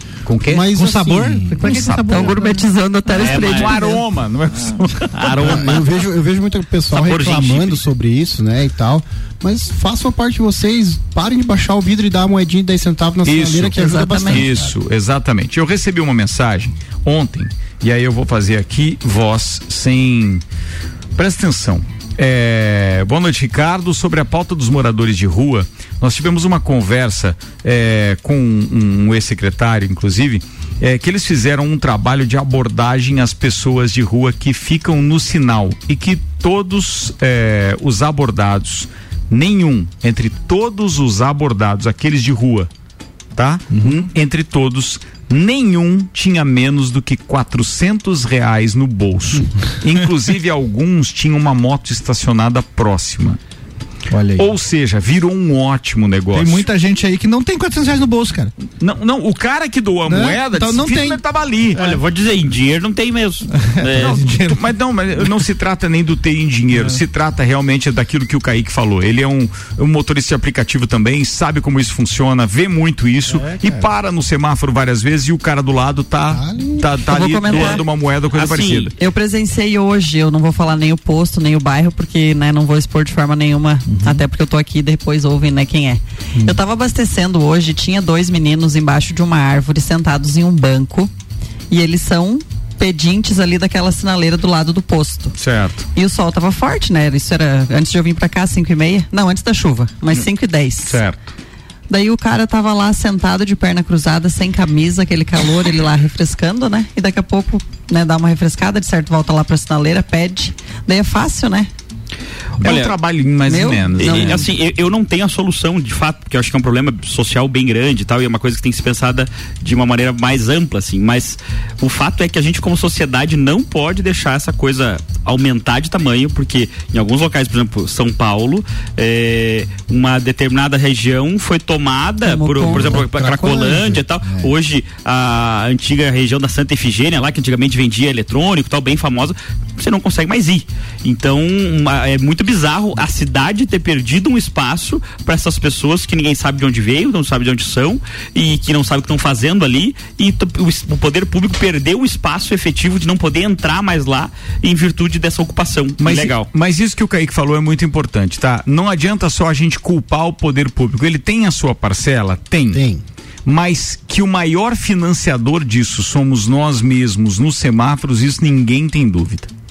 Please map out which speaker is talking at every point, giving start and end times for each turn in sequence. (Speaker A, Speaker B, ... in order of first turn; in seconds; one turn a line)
Speaker A: 0.2-0.7
Speaker B: 0.5-1.9
Speaker C: 0.7-2.6
Speaker A: 1.6-2.3
Speaker D: 2.0-4.0
Speaker A: 3.1-5.7
Speaker E: 3.2-3.8
Speaker E: 5.1-5.9
Speaker B: 5.4-14.7
Speaker E: 6.9-7.8
Speaker A: 13.2-20.4
Speaker D: 13.7-14.4
Speaker A: 21.1-42.7
Speaker A: 43.3-53.4
Speaker C: 43.7-44.1
Speaker C: 54.1-54.5
Speaker A: 54.4-56.7
Speaker C: 56.3-58.5
Speaker A: 58.8-61.9
Speaker C: 60.0-61.2
Speaker E: 61.8-64.2
Speaker C: 63.5-64.6
Speaker A: 64.0-78.9
Speaker C: 66.7-67.0
Speaker C: 73.3-73.8
Speaker B: 76.3-77.0
Speaker D: 77.1-77.8
Speaker E: 77.5-77.8
Speaker E: 78.3-78.9
Speaker D: 79.0-91.1
Speaker C: 83.9-84.2
Speaker D: 91.7-95.3
Speaker A: 95.4-95.8
Speaker D: 95.9-101.0
Speaker A: 100.8-101.3
Speaker D: 101.9-111.7
Speaker E: 112.6-112.9
Speaker A: 112.6-114.5
Speaker D: 113.5-114.4
Speaker E: 114.0-156.5
Speaker D: 132.2-133.0
Speaker B: 132.6-134.5
Speaker A: 156.0-162.8
Speaker B: 162.7-163.0
Speaker A: 163.4-169.5